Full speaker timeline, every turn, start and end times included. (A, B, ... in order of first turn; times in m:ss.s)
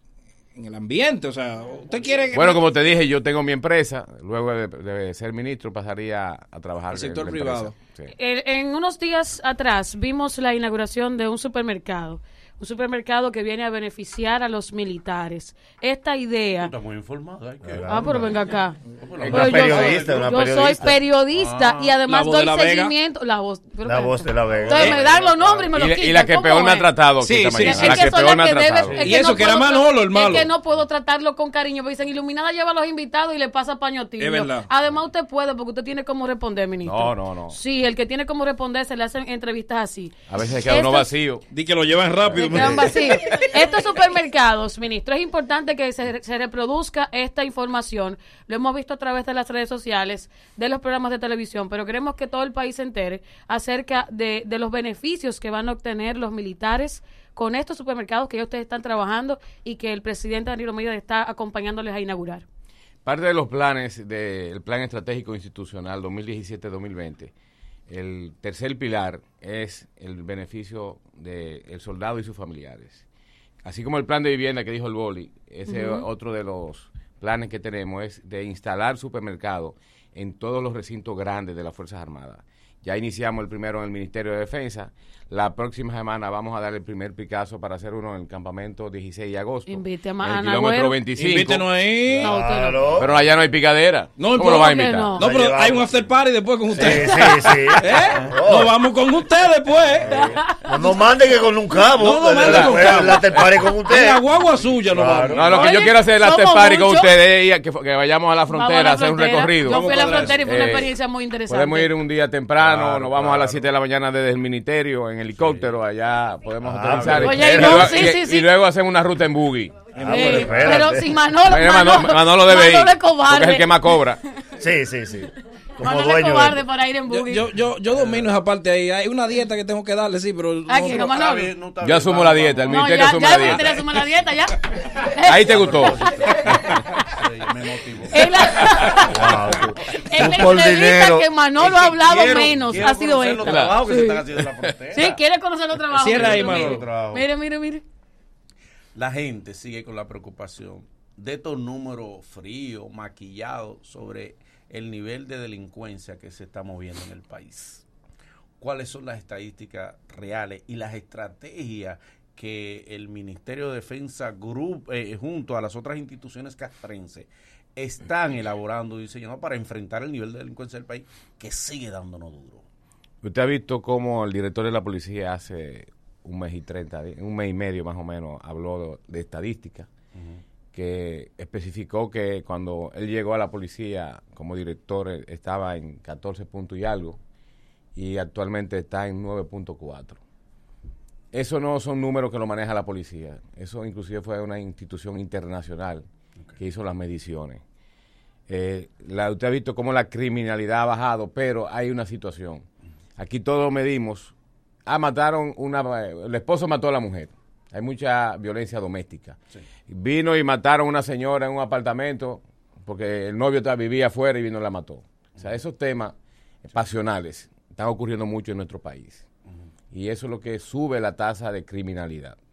0:00.5-0:02.6 A
0:02.3-0:08.1 B
0:06.9-0:07.8 A
0:08.1-0:16.7 C
0:16.6-0:18.2 D
0:17.6-0:18.3 E
0:17.9-0:18.8 C
0:19.0-0:22.0 D
0:19.2-0:21.0 E
0:19.3-0:26.9 C
0:22.0-0:22.9 A
0:23.8-0:25.0 E
0:24.5-0:25.7 D
0:25.7-0:29.1 B
0:27.2-0:28.1 A
0:27.5-0:41.1 C
0:28.9-0:30.5 A
0:34.2-0:34.7 A
0:36.8-0:37.6 B
0:40.3-0:41.4 B
0:41.5-0:43.5 A
0:42.3-1:02.4 C
0:42.3-0:42.7 B
1:03.0-1:07.3 B
1:07.9-1:13.0 B
1:13.6-1:31.8 B
1:15.7-1:16.1 C
1:29.7-1:31.0 C
1:31.2-1:32.3 A
1:32.1-1:33.1 E
1:32.2-1:33.0 C
1:33.0-1:35.2 B
1:34.2-1:40.3 A
1:34.3-1:35.2 C
1:35.2-1:35.9 E
1:36.7-1:38.8 E
1:40.1-1:41.0 C
1:40.1-1:44.2 E
1:41.9-1:45.8 A
1:42.4-1:43.7 B
1:44.4-1:45.6 D
1:44.9-1:45.4 E
1:45.3-1:50.9 B
1:45.5-1:47.1 C
1:48.5-1:51.9 C
1:49.6-1:50.5 A
1:49.8-1:50.3 D
1:51.5-2:00.7 B
1:52.6-1:53.7 D
1:55.3-1:55.7 D
1:56.6-1:57.8 E
1:56.8-1:57.4 D
1:57.2-1:58.5 C
1:59.9-2:00.7 D
1:59.9-2:01.2 E
2:00.0-2:03.7 C
2:01.4-2:04.2 B
2:04.6-2:06.6 E
2:05.8-2:07.5 C
2:07.1-2:11.1 A
2:07.9-2:08.3 D
2:10.7-2:11.5 C
2:11.0-2:13.5 D
2:11.8-2:14.0 B
2:12.6-2:16.5 C
2:15.2-2:16.1 B
2:15.3-2:19.4 D
2:18.1-2:24.2 C
2:19.1-2:21.3 E
2:21.6-2:25.2 D
2:23.4-2:23.8 B
2:24.3-2:24.7 B
2:24.9-2:27.8 C
2:25.9-2:26.9 A
2:26.1-2:27.2 D
2:28.9-2:37.8 D
2:38.6-2:52.6 D
2:53.2-2:59.9 B
3:00.1-3:00.4 D
3:00.7-3:07.2 B
3:07.9-3:10.2 B
3:11.3-3:16.0 B
3:16.6-3:17.6 B
3:18.5-3:22.6 B
3:23.2-3:24.3 B
3:24.8-3:29.4 B
3:29.9-3:39.2 B
3:39.9-3:42.4 B